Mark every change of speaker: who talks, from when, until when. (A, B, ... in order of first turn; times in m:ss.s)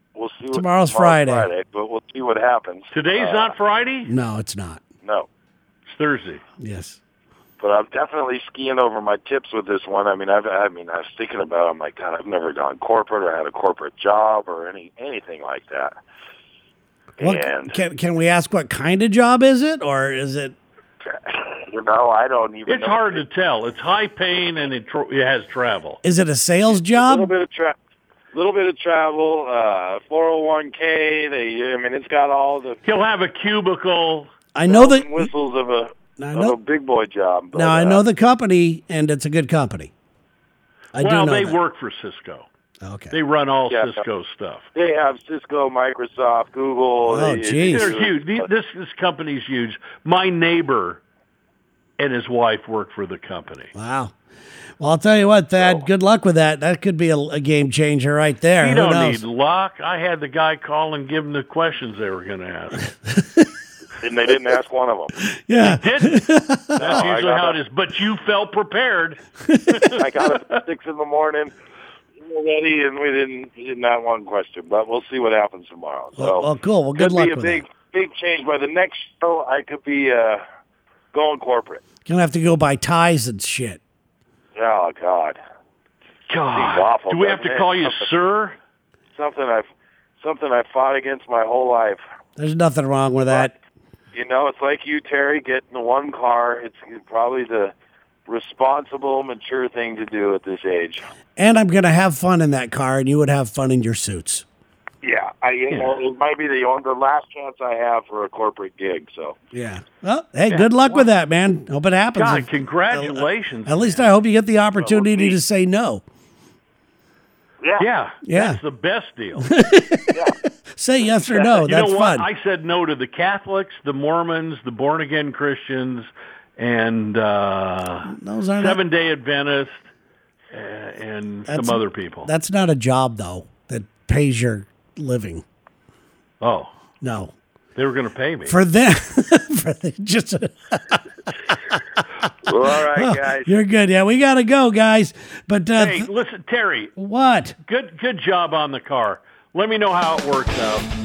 0:00.1-0:03.5 A
0:00.5-0:01.5 B
0:02.9-0:04.1 C
0:04.1-0:04.8 B
0:05.9-0:06.4 C
0:06.6-0:07.0 B
0:07.6-0:15.9 A
0:17.2-0:17.8 A
0:17.2-0:20.6 B
0:21.1-0:23.2 A
0:22.7-0:26.0 C
0:26.0-0:27.3 B
0:26.8-0:27.8 A
0:28.3-0:32.8 A
0:32.8-0:34.3 C
0:34.5-0:35.3 B
0:34.7-0:38.0 A
0:36.2-0:36.6 B
0:37.5-0:39.9 B
0:40.9-0:41.6 B
0:41.0-0:42.4 C
0:42.8-0:43.2 B
0:43.1-0:44.7 C
0:44.8-0:48.5 A
0:47.1-0:47.9 B
0:47.7-0:51.0 C
0:52.0-0:53.7 C
0:53.8-0:54.1 B
0:54.8-0:59.2 B
0:55.6-0:55.8 A
0:58.6-1:02.9 C
1:03.1-1:03.5 B
1:04.0-1:05.1 A
1:05.2-1:06.8 B
1:05.6-1:10.6 C
1:06.8-1:07.6 A
1:09.4-1:09.9 B
1:10.0-1:11.5 A
1:12.2-1:20.4 A
1:16.2-1:17.6 B
1:21.1-1:21.8 A
1:22.0-1:23.8 B
1:24.6-1:25.4 A
1:26.3-1:28.6 C
1:26.5-1:28.1 A
1:29.1-1:29.6 A
1:30.2-1:32.0 A
1:32.4-1:33.5 B
1:34.1-1:37.7 A
1:38.3-1:41.0 A
1:41.4-1:44.4 B
1:45.0-1:49.4 A
1:49.5-1:56.0 B
1:50.5-1:51.0 C
1:52.1-1:54.1 C
1:54.8-1:55.4 A
1:57.8-1:59.5 C
1:58.2-1:58.6 B
1:59.4-2:00.2 B
2:00.8-2:02.3 B
2:01.2-2:01.5 A
2:01.6-2:09.8 C
2:08.1-2:08.8 B
2:10.5-2:12.3 C
2:11.5-2:15.4 B
2:16.4-2:16.7 C
2:17.0-2:17.3 B
2:17.8-2:18.6 C
2:18.5-2:21.8 B
2:22.4-2:23.5 A
2:22.7-2:26.1 B
2:25.8-2:26.9 C
2:27.0-2:27.6 B
2:27.6-2:30.9 C